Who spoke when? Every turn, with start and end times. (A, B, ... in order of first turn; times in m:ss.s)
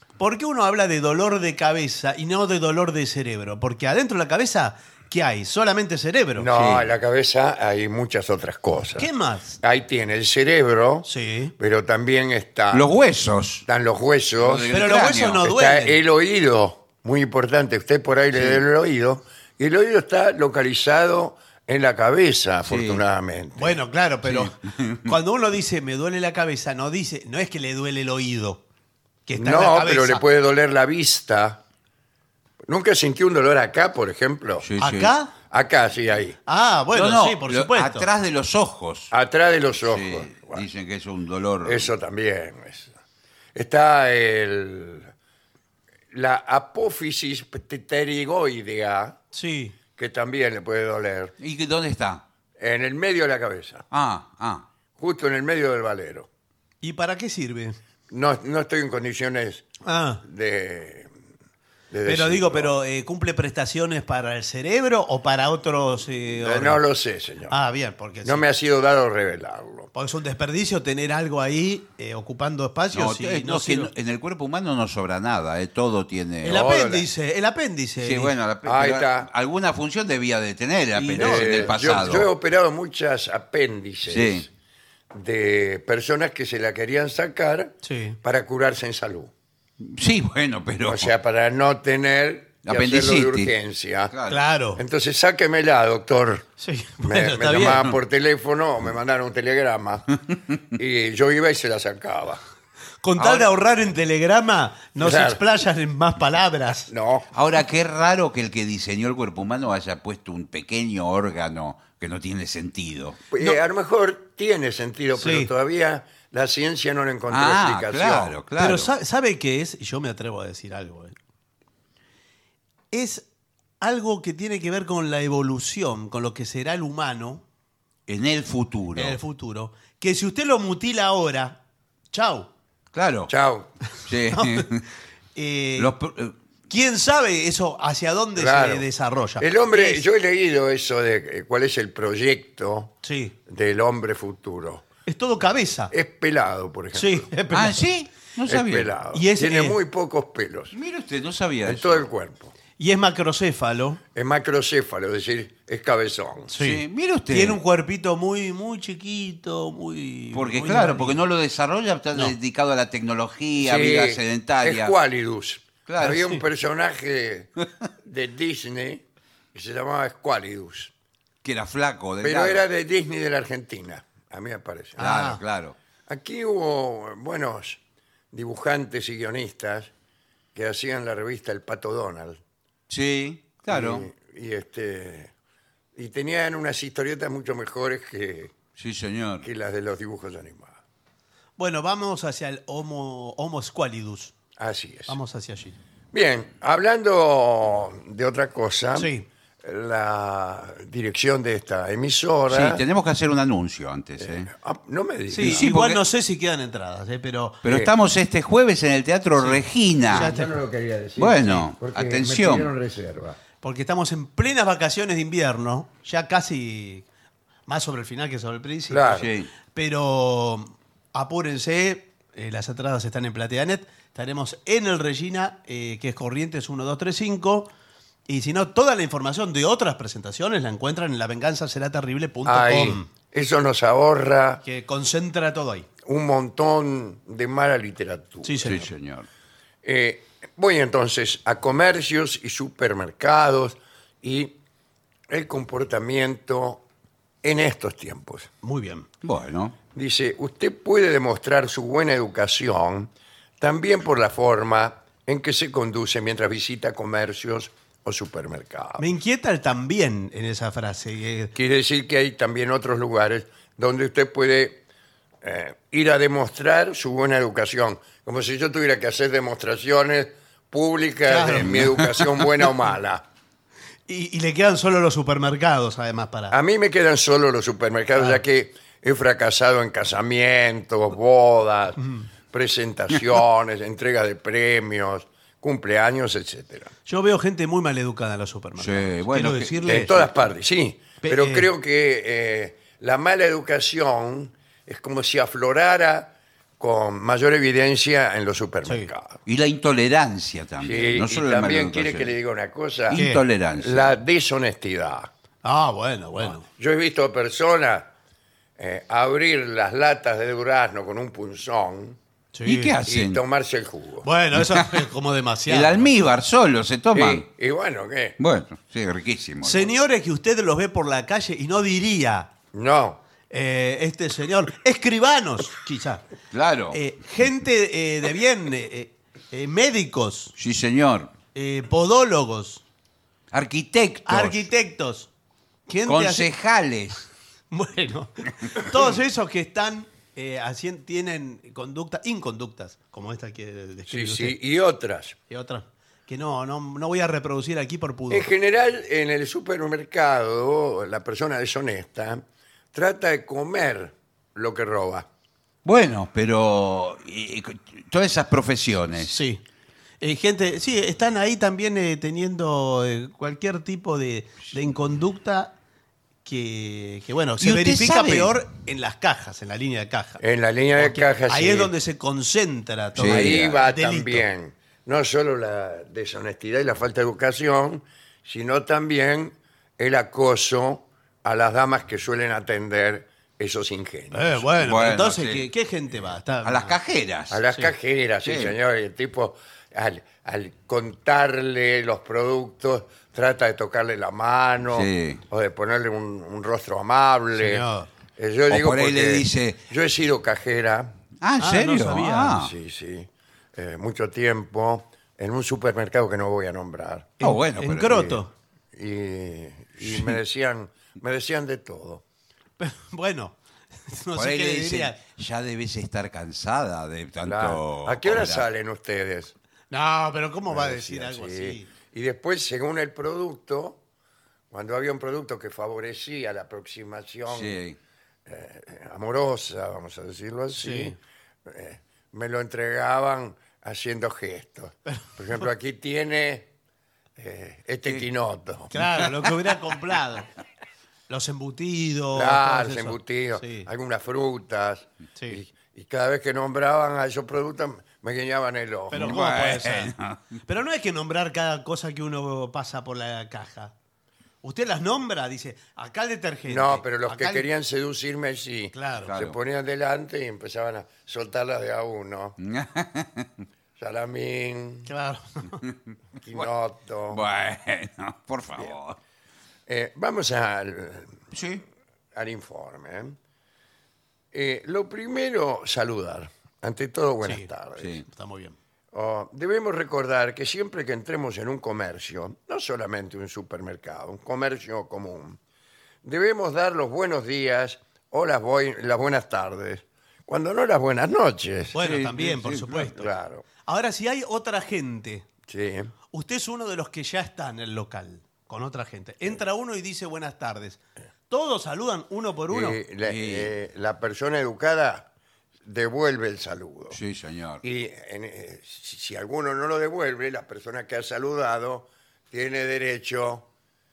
0:00.2-0:06.5 A
0:06.4-0:09.1 B
0:06.5-0:06.9 C
0:09.0-0:09.6 A
0:09.6-0:12.9 B
0:11.1-0:11.5 A
0:12.7-0:13.6 C
0:13.6-0:14.7 B
0:14.4-0:15.4 C
0:14.7-0:16.0 A
0:15.4-0:23.8 B
0:18.4-0:18.6 C
0:22.6-0:23.0 C
0:23.6-0:28.6 A
0:24.2-0:25.1 C
0:29.3-0:30.3 A
0:29.4-0:31.6 B
0:32.7-0:34.7 B
0:34.6-0:35.1 C
0:34.8-0:35.3 A
0:35.5-0:36.4 B
0:36.5-0:38.1 A
0:36.9-0:39.1 C
0:39.1-0:40.6 B
0:39.8-0:41.9 C
0:41.6-0:42.9 B
0:43.5-0:45.1 B
0:46.1-0:49.2 B
0:49.3-0:49.8 A
0:50.0-0:51.3 B
0:51.4-0:52.2 C
0:52.6-0:53.9 B
0:53.9-0:54.6 C
0:55.0-0:56.3 B
0:56.8-0:57.8 A
0:58.1-0:59.6 B
0:59.8-1:00.2 A
1:00.2-1:01.1 B
1:01.9-1:02.7 B
1:02.0-1:06.8 A
1:06.4-1:07.6 B
1:07.5-1:08.4 A
1:08.2-1:09.9 B
1:09.9-1:13.9 A
1:12.9-1:16.6 C
1:16.4-1:18.4 A
1:16.5-1:17.1 B
1:18.0-1:22.3 C
1:18.6-1:19.3 B
1:21.0-1:21.8 A
1:21.2-1:24.5 B
1:24.1-1:24.4 C
1:25.1-1:29.3 B
1:27.8-1:28.2 A
1:29.8-1:31.1 C
1:30.8-1:34.1 B
1:32.7-1:33.5 C
1:34.1-1:34.4 C
1:34.3-1:34.8 A
1:34.8-1:36.5 B
1:36.6-1:37.8 A
1:37.0-1:40.0 B
1:40.8-1:42.4 B
1:43.0-1:46.9 A
1:43.2-1:43.5 C
1:45.0-1:45.4 B
1:46.9-1:47.3 B
1:47.3-1:53.2 C
1:53.3-1:58.4 B
1:55.2-1:55.5 A
1:57.3-1:58.9 C
1:58.6-2:01.2 A
2:02.9-2:03.2 A
2:03.8-2:07.4 A
2:08.1-2:09.2 C
2:09.0-2:11.6 A
2:12.1-2:12.5 A
2:12.9-2:13.3 C
2:13.3-2:13.7 B
2:14.1-2:14.8 C
2:14.3-2:14.7 A
2:15.4-2:16.0 A
2:15.8-2:16.3 C
2:16.7-2:20.0 A
2:18.4-2:18.9 B
2:19.4-2:22.9 B
2:23.0-2:23.4 A
2:23.5-2:24.8 B
2:25.1-2:25.9 A
2:25.9-2:27.3 B
2:26.9-2:27.9 A
2:27.5-2:28.9 C
2:28.5-2:30.7 B
2:29.1-2:29.8 A
2:30.7-2:32.0 C
2:31.6-2:32.5 B
2:32.8-2:34.0 A
2:34.2-2:36.5 B
2:36.5-2:41.2 A
2:36.6-2:37.6 C
2:40.3-2:44.9 C
2:43.6-2:47.5 B
2:45.9-2:46.2 C
2:46.0-2:46.4 A
2:48.0-2:49.0 B
2:49.5-2:50.9 B
2:51.4-2:52.6 C
2:52.2-2:55.0 B
2:55.0-2:55.4 A
2:55.0-2:55.8 C
2:56.1-2:57.8 B
2:58.3-2:59.9 B
3:00.6-3:02.4 B
3:02.9-3:04.1 C
3:03.7-3:05.3 B
3:06.0-3:08.6 B
3:08.8-3:09.5 C
3:09.4-3:10.8 B
3:11.6-3:14.4 A
3:14.6-3:15.2 B
3:15.1-3:15.8 A
3:16.1-3:19.1 B
3:19.0-3:19.3 A
3:19.6-3:22.8 B
3:22.5-3:24.5 C
3:24.2-3:25.7 B
3:25.3-3:27.6 A
3:25.4-3:26.0 C
3:27.6-3:30.3 C
3:27.6-3:27.9 B
3:30.1-3:33.4 B
3:30.1-3:30.5 A
3:31.2-3:32.7 C
3:33.6-3:37.1 A
3:37.7-3:47.7 A
3:38.9-3:39.3 B
3:39.2-3:39.5 C
3:48.3-3:53.1 A
3:52.5-3:54.6 B
3:54.6-3:55.9 A
3:56.0-3:58.9 B
3:58.4-3:58.8 A
3:58.6-3:59.3 C
3:59.8-4:04.6 B
4:05.3-4:06.8 B
4:07.4-4:08.5 B
4:08.6-4:09.1 A
4:09.2-4:09.8 C
4:10.0-4:19.0 B
4:19.0-4:21.5 A
4:21.6-4:24.8 B
4:25.4-4:33.2 B
4:31.2-4:31.9 A
4:31.6-4:32.3 C
4:34.1-4:36.6 A
4:36.5-4:42.0 B
4:42.0-4:42.3 A
4:42.5-4:46.9 B
4:47.1-4:50.3 A
4:48.8-4:49.8 C
4:49.8-4:59.4 B
4:51.2-4:51.7 A
4:59.5-5:02.3 C
5:00.8-5:03.2 B
5:03.1-5:04.1 C
5:03.1-5:03.4 A
5:03.8-5:05.3 B
5:05.6-5:06.7 A
5:06.5-5:08.1 B
5:08.8-5:12.2 B
5:12.5-5:13.0 A
5:12.6-5:13.4 C
5:13.1-5:14.3 B
5:14.2-5:16.1 A
5:14.7-5:15.0 C
5:15.7-5:17.5 C
5:17.1-5:18.4 B
5:18.4-5:19.9 C
5:19.6-5:22.5 A
5:22.7-5:23.2 B
5:23.5-5:26.3 A
5:26.5-5:27.0 C
5:26.9-5:30.5 A
5:30.6-5:31.3 C
5:31.6-5:32.8 A
5:33.5-5:34.6 C
5:34.3-5:35.3 A
5:35.9-5:36.5 A
5:36.1-5:37.2 C
5:37.7-5:44.6 A
5:44.1-5:45.4 B
5:45.5-5:48.5 A
5:48.3-5:55.3 B
5:55.8-5:59.4 C
5:59.2-5:59.6 A
6:00.2-6:05.8 A
6:06.4-6:10.4 A
6:07.6-6:08.6 C
6:10.4-6:11.9 B
6:11.0-6:14.5 A
6:13.2-6:13.8 C
6:13.2-6:24.6 B
6:24.3-6:26.9 A
6:24.8-6:25.7 C
6:26.6-6:27.7 C
6:27.5-6:37.8 B
6:28.4-6:28.8 C
6:34.9-6:35.4 C
6:37.6-6:38.1 A
6:38.4-6:41.2 B
6:38.7-6:39.8 C
6:41.4-6:42.7 C
6:41.6-6:42.6 A
6:42.5-6:47.4 B
6:47.4-6:48.4 C
6:47.4-6:48.5 A
6:48.9-6:52.2 B
6:52.8-6:55.2 A
6:54.4-6:58.6 C
6:57.4-6:59.5 B
6:59.9-7:01.9 A
7:00.7-7:04.0 B
7:04.7-7:07.8 B
7:07.5-7:08.0 C
7:08.5-7:16.7 B
7:10.8-7:11.2 A
7:17.4-7:18.9 B
7:18.9-7:20.5 A
7:21.3-7:23.9 A
7:22.3-7:29.4 B
7:29.1-7:30.1 A
7:29.1-7:30.6 C
7:30.7-7:33.9 A
7:34.6-7:37.7 A
7:36.7-7:42.6 B
7:38.9-7:39.3 A
7:39.3-7:39.6 C
7:42.6-7:43.5 C
7:44.0-7:45.1 B
7:45.1-7:45.8 A
7:46.4-7:47.4 B
7:47.3-7:49.2 C
7:49.9-7:51.4 B
7:51.5-7:51.8 C
7:52.3-7:53.4 B
7:54.5-7:58.2 B
7:57.4-7:57.7 A
7:58.0-7:58.2 C
7:58.2-7:58.8 A
7:59.1-8:05.6 B
8:06.2-8:12.0 B
8:11.9-8:13.3 A
8:12.0-8:13.1 C
8:13.0-8:13.6 B
8:13.8-8:15.5 A
8:15.7-8:16.1 B
8:16.3-8:23.0 A
8:22.7-8:25.3 B
8:23.2-8:23.7 C
8:25.8-8:27.2 B
8:27.1-8:27.8 C
8:27.8-8:33.7 B